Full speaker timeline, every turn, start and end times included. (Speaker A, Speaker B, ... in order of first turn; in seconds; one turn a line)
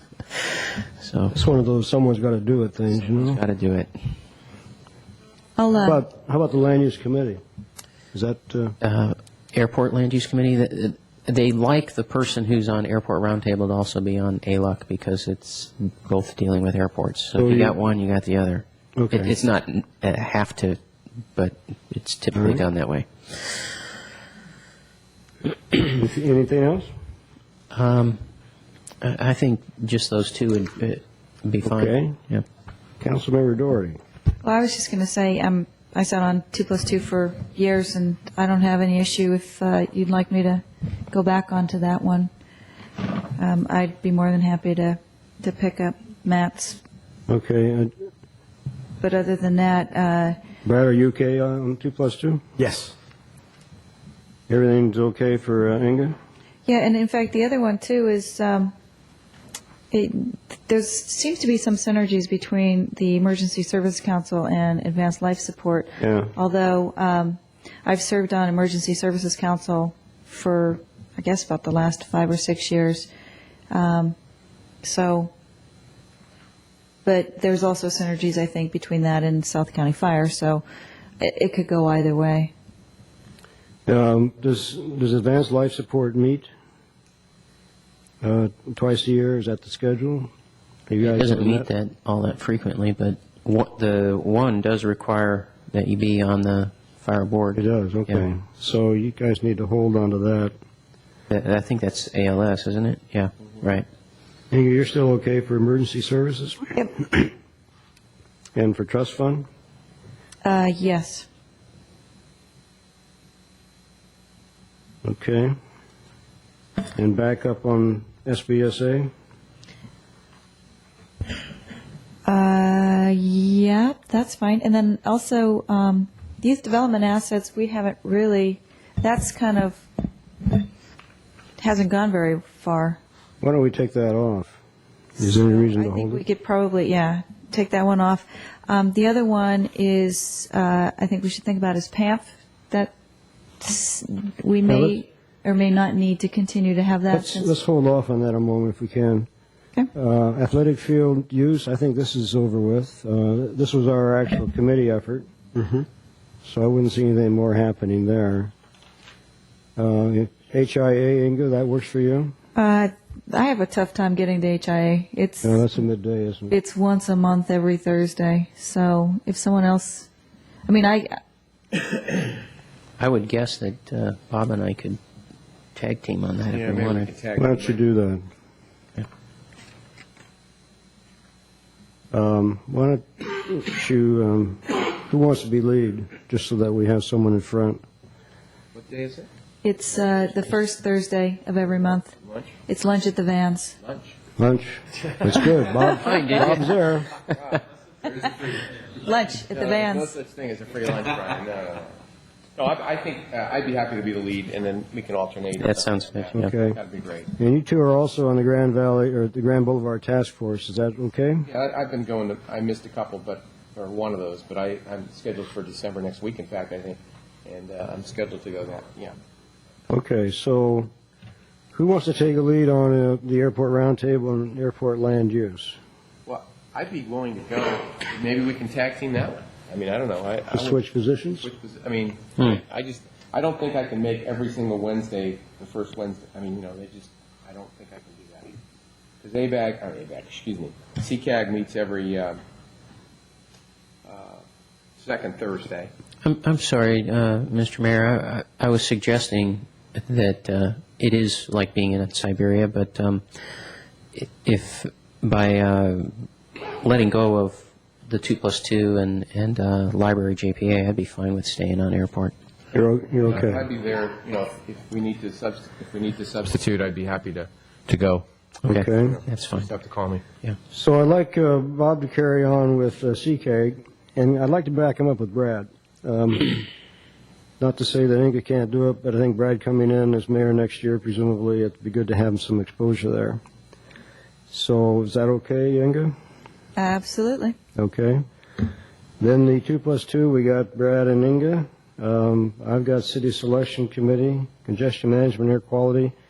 Speaker A: 0.3-1.4
Speaker B: 1.3-3.4
Speaker A: 3.0-3.9
Speaker C: 5.6-6.0
Speaker B: 5.8-7.4
Speaker B: 8.1-8.8
Speaker A: 8.8-20.8
Speaker B: 17.4-17.7
Speaker B: 19.0-19.3
Speaker A: 21.4-23.8
Speaker B: 22.3-22.6
Speaker B: 25.7-26.9
Speaker A: 27.7-28.2
Speaker A: 29.0-32.5
Speaker B: 31.6-32.2
Speaker B: 33.0-34.0
Speaker C: 34.4-42.3
Speaker C: 43.4-46.8
Speaker B: 47.3-47.9
Speaker C: 49.0-50.4
Speaker B: 50.6-52.9
Speaker B: 54.5-56.2
Speaker C: 56.7-58.7
Speaker C: 59.9-73.1
Speaker B: 66.0-66.3
Speaker C: 73.7-74.2
Speaker C: 74.8-75.3
Speaker C: 77.0-80.6
Speaker C: 81.2-82.5
Speaker B: 83.9-86.5
Speaker B: 88.2-90.3
Speaker B: 90.9-91.7
Speaker A: 91.0-98.2
Speaker B: 97.5-100.5
Speaker A: 101.3-103.9
Speaker B: 104.5-107.3
Speaker B: 108.5-109.5
Speaker C: 110.4-111.3
Speaker B: 115.0-115.5
Speaker B: 117.0-119.1
Speaker C: 122.3-129.9
Speaker C: 131.6-133.0
Speaker B: 133.4-134.6
Speaker B: 135.2-136.2
Speaker C: 135.2-142.9
Speaker C: 143.6-147.5
Speaker B: 144.7-145.0
Speaker B: 147.1-149.3
Speaker B: 149.9-155.9
Speaker B: 156.4-158.5
Speaker B: 159.8-162.3
Speaker C: 162.6-165.6
Speaker B: 165.4-166.5
Speaker C: 166.5-170.1
Speaker C: 170.7-171.2
Speaker A: 173.0-175.0
Speaker A: 175.8-177.1
Speaker D: 176.5-177.8
Speaker B: 177.4-178.2
Speaker B: 182.1-187.8
Speaker D: 188.7-189.3
Speaker C: 189.6-193.8
Speaker D: 192.2-192.5
Speaker D: 193.8-194.2
Speaker B: 194.4-197.1
Speaker A: 195.9-196.6
Speaker D: 196.1-196.7
Speaker D: 197.3-198.7
Speaker C: 199.0-200.1
Speaker D: 199.5-202.0
Speaker D: 202.6-207.3
Speaker A: 205.6-206.5
Speaker B: 206.3-206.8
Speaker B: 207.4-211.5
Speaker D: 211.5-219.1
Speaker B: 219.9-220.9
Speaker B: 221.7-225.8
Speaker D: 226.3-230.8
Speaker B: 230.5-231.5
Speaker D: 231.4-238.6
Speaker D: 239.2-242.4
Speaker D: 244.1-244.4
Speaker D: 245.0-245.9
Speaker A: 246.2-253.2
Speaker A: 254.1-262.3
Speaker B: 262.7-263.6
Speaker D: 263.2-268.3
Speaker A: 268.6-269.7
Speaker B: 268.7-269.2
Speaker D: 269.1-270.2
Speaker B: 270.7-276.7
Speaker B: 277.6-283.4
Speaker B: 284.5-286.1
Speaker C: 286.8-287.6
Speaker B: 287.8-288.2
Speaker B: 289.2-296.1